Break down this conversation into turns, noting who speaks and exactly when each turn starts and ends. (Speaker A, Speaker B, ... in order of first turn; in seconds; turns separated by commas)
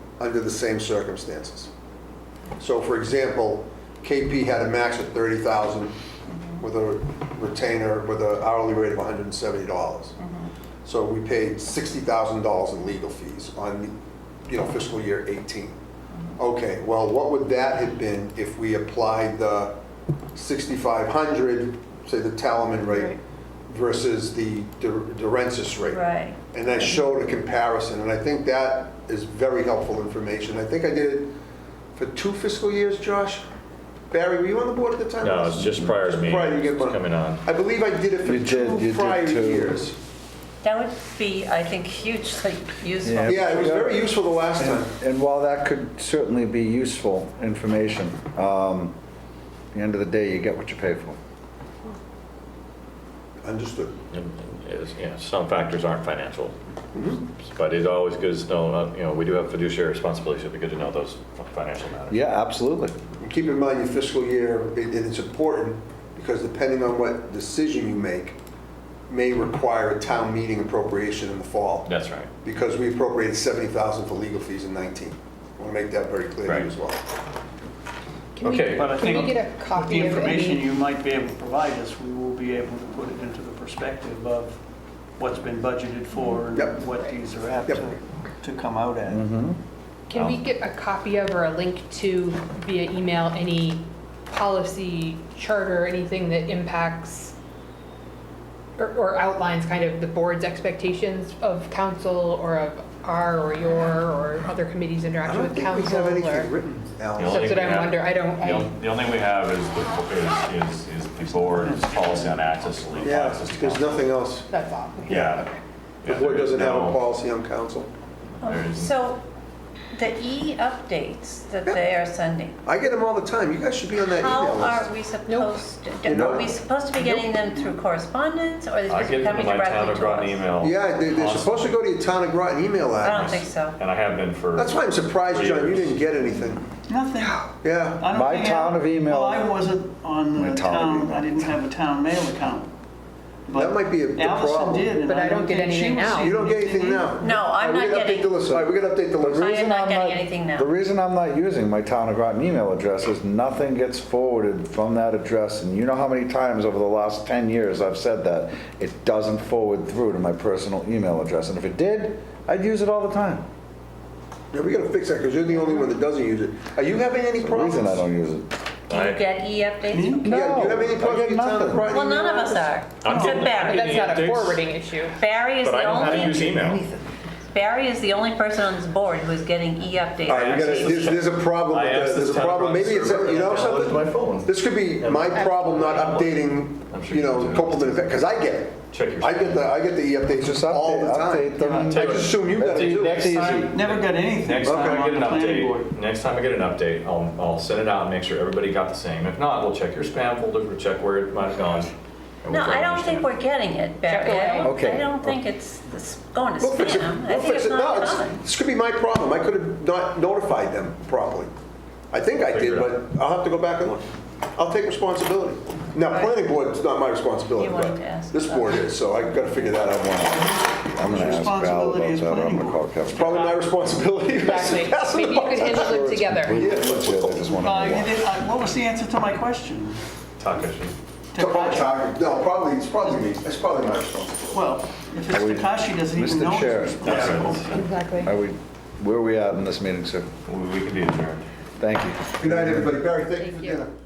Speaker A: 0.2-1.7, Speaker A: 2.6-5.9, Speaker A: 6.6-10.2, Speaker B: 10.2-10.5, Speaker A: 10.8-13.9, Speaker A: 14.5-15.8, Speaker A: 16.4-19.8, Speaker A: 20.3-23.2, Speaker A: 23.7-31.3, Speaker B: 25.9-26.4, Speaker A: 31.9-33.4, Speaker A: 34.1-40.0, Speaker C: 35.2-37.4, Speaker D: 38.2-39.8, Speaker B: 40.6-43.7, Speaker D: 43.0-48.9, Speaker A: 43.2-44.9, Speaker D: 49.7-51.2, Speaker A: 53.4-54.0, Speaker C: 54.1-56.5, Speaker A: 56.9-57.2, Speaker C: 57.4-62.3, Speaker D: 62.1-62.9, Speaker A: 63.2-68.4, Speaker A: 69.1-71.9, Speaker C: 71.8-72.3, Speaker A: 72.4-77.0, Speaker E: 78.3-80.7, Speaker C: 78.4-79.0, Speaker F: 78.8-84.6, Speaker F: 85.2-89.2, Speaker A: 86.5-86.8, Speaker D: 89.1-89.6, Speaker E: 90.1-97.3, Speaker C: 90.1-90.4, Speaker E: 98.8-106.5, Speaker A: 105.2-107.9, Speaker C: 107.2-114.1, Speaker E: 107.2-108.7, Speaker F: 111.4-112.2, Speaker A: 113.0-114.5, Speaker E: 114.5-115.6, Speaker C: 115.1-115.5, Speaker C: 116.0-117.0, Speaker A: 116.0-117.9, Speaker C: 118.4-118.9, Speaker B: 118.4-119.2, Speaker B: 119.9-122.6, Speaker A: 122.6-124.9, Speaker B: 124.2-130.4, Speaker E: 125.3-125.6, Speaker A: 126.0-126.5, Speaker C: 128.9-131.9, Speaker A: 130.6-133.4, Speaker B: 133.0-133.8, Speaker C: 133.0-136.1, Speaker A: 134.5-136.7, Speaker F: 136.9-137.3, Speaker A: 137.6-138.1, Speaker F: 138.0-142.7, Speaker D: 138.1-139.5, Speaker D: 140.3-141.3, Speaker F: 143.5-147.2, Speaker A: 143.5-145.0, Speaker E: 145.1-146.3, Speaker A: 146.2-149.5, Speaker B: 147.2-148.4, Speaker D: 148.4-163.4, Speaker B: 149.3-150.7, Speaker A: 164.5-168.1, Speaker D: 167.4-168.5, Speaker B: 168.9-170.2, Speaker C: 168.9-169.2, Speaker F: 169.9-170.2, Speaker D: 170.2-171.9, Speaker A: 170.2-172.7, Speaker B: 171.9-173.8, Speaker C: 173.0-174.7, Speaker E: 173.5-175.2, Speaker B: 175.1-181.1, Speaker C: 175.6-176.8, Speaker C: 180.2-188.0, Speaker A: 180.3-193.5, Speaker E: 185.3-185.7, Speaker C: 188.9-189.7, Speaker D: 190.3-193.8, Speaker C: 191.8-201.9, Speaker F: 193.7-195.8, Speaker A: 194.7-195.0, Speaker C: 202.4-203.3, Speaker B: 202.5-208.4, Speaker E: 204.0-204.7, Speaker D: 204.6-205.4, Speaker A: 206.6-211.5, Speaker A: 212.1-220.7, Speaker C: 212.4-213.0, Speaker B: 216.1-216.4, Speaker B: 217.6-219.7, Speaker D: 219.8-223.5, Speaker F: 221.0-223.6, Speaker A: 223.1-227.6, Speaker E: 224.3-226.6, Speaker D: 225.8-228.3, Speaker F: 227.5-230.0, Speaker C: 230.4-231.0, Speaker F: 231.3-231.9, Speaker A: 231.3-234.4, Speaker F: 234.5-237.7, Speaker D: 235.3-240.3, Speaker C: 237.1-237.8, Speaker A: 237.1-237.4, Speaker E: 237.7-238.3, Speaker C: 240.4-241.4, Speaker D: 241.8-242.9, Speaker A: 242.4-243.9, Speaker E: 243.4-243.8